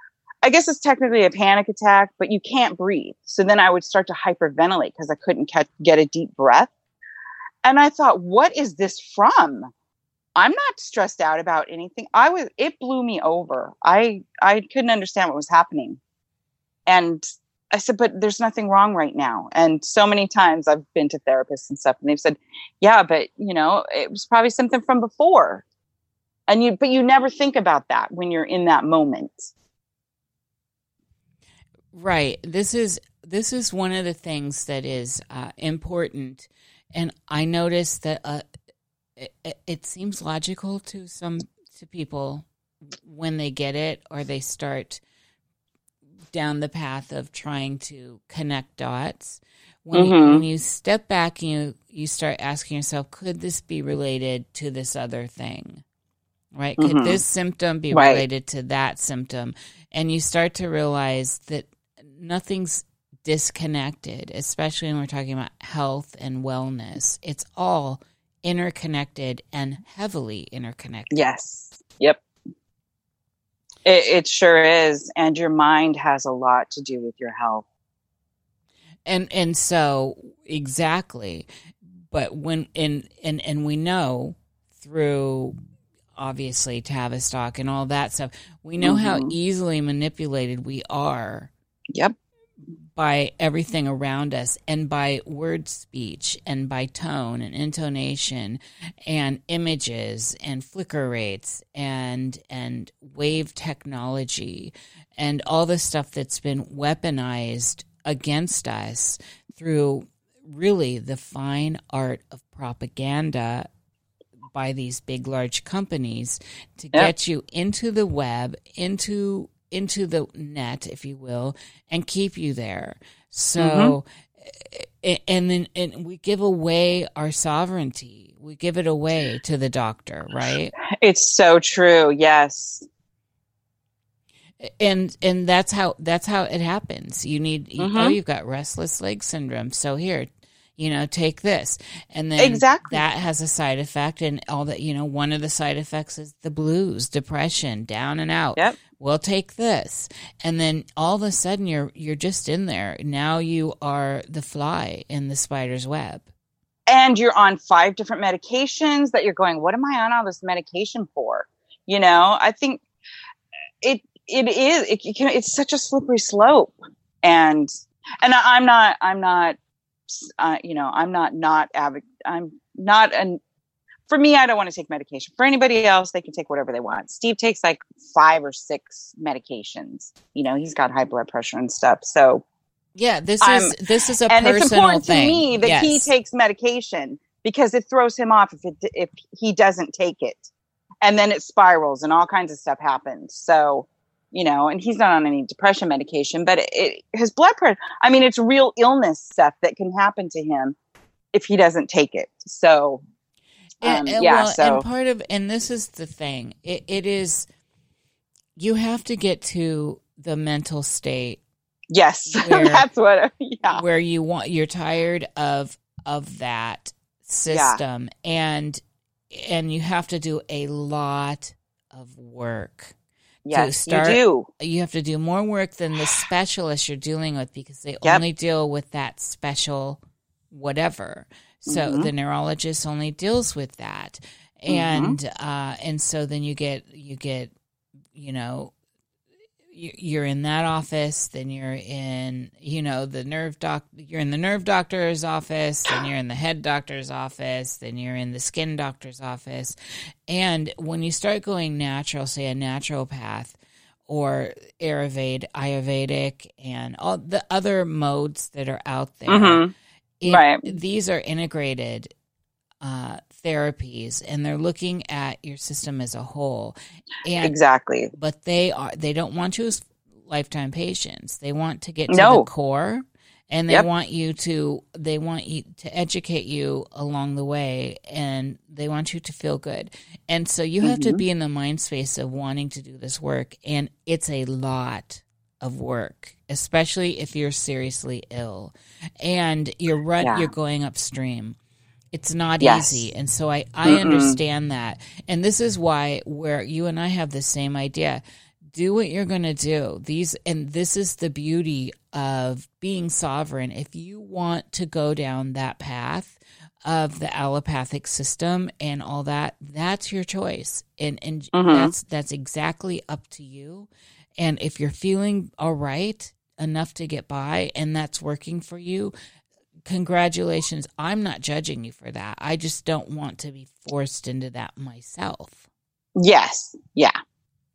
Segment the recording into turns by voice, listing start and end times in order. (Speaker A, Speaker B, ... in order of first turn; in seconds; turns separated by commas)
Speaker A: 0.4-6.7, Speaker A: 7.6-9.7, Speaker A: 10.3-16.0, Speaker A: 16.9-25.6, Speaker A: 26.5-29.5, Speaker B: 31.9-38.4, Speaker B: 39.2-45.0, Speaker B: 46.3-55.8, Speaker A: 49.9-50.4, Speaker B: 56.5-71.2, Speaker A: 56.8-57.2, Speaker A: 57.9-58.2, Speaker A: 71.1-72.2, Speaker A: 73.8-77.7, Speaker B: 79.0-81.5, Speaker B: 82.1-85.5, Speaker B: 86.2-91.5, Speaker A: 88.8-89.3, Speaker B: 92.9-113.7, Speaker B: 114.5-130.7, Speaker A: 123.6-124.0, Speaker A: 130.9-132.8, Speaker B: 134.6-156.3, Speaker A: 137.8-138.2, Speaker A: 142.4-143.0, Speaker A: 156.9-162.8, Speaker A: 163.8-167.7, Speaker A: 168.2-169.6, Speaker A: 170.1-173.4, Speaker A: 174.1-182.4, Speaker B: 182.9-186.1, Speaker A: 183.4-183.8, Speaker A: 184.3-190.5, Speaker A: 191.0-200.8, Speaker A: 201.3-203.0, Speaker B: 203.8-207.5, Speaker A: 203.8-204.8, Speaker B: 208.6-211.4, Speaker A: 211.9-213.8, Speaker B: 212.3-212.8, Speaker B: 213.7-218.8, Speaker A: 217.5-217.8, Speaker B: 219.3-222.9, Speaker A: 223.4-224.5, Speaker B: 223.5-230.0, Speaker B: 230.5-237.5, Speaker A: 231.7-232.1, Speaker A: 234.7-235.2, Speaker B: 238.1-238.7, Speaker B: 239.7-249.8, Speaker B: 250.3-259.6, Speaker A: 259.3-259.7, Speaker B: 260.2-262.1, Speaker A: 260.2-260.6, Speaker B: 262.8-267.5, Speaker A: 267.4-268.1, Speaker B: 268.1-291.6, Speaker A: 272.1-272.5, Speaker A: 280.8-281.2, Speaker A: 290.2-290.5, Speaker B: 292.1-298.2, Speaker A: 292.6-293.1, Speaker A: 293.8-294.4, Speaker B: 298.7-319.1, Speaker A: 311.5-311.9, Speaker B: 319.9-325.6, Speaker A: 326.2-327.1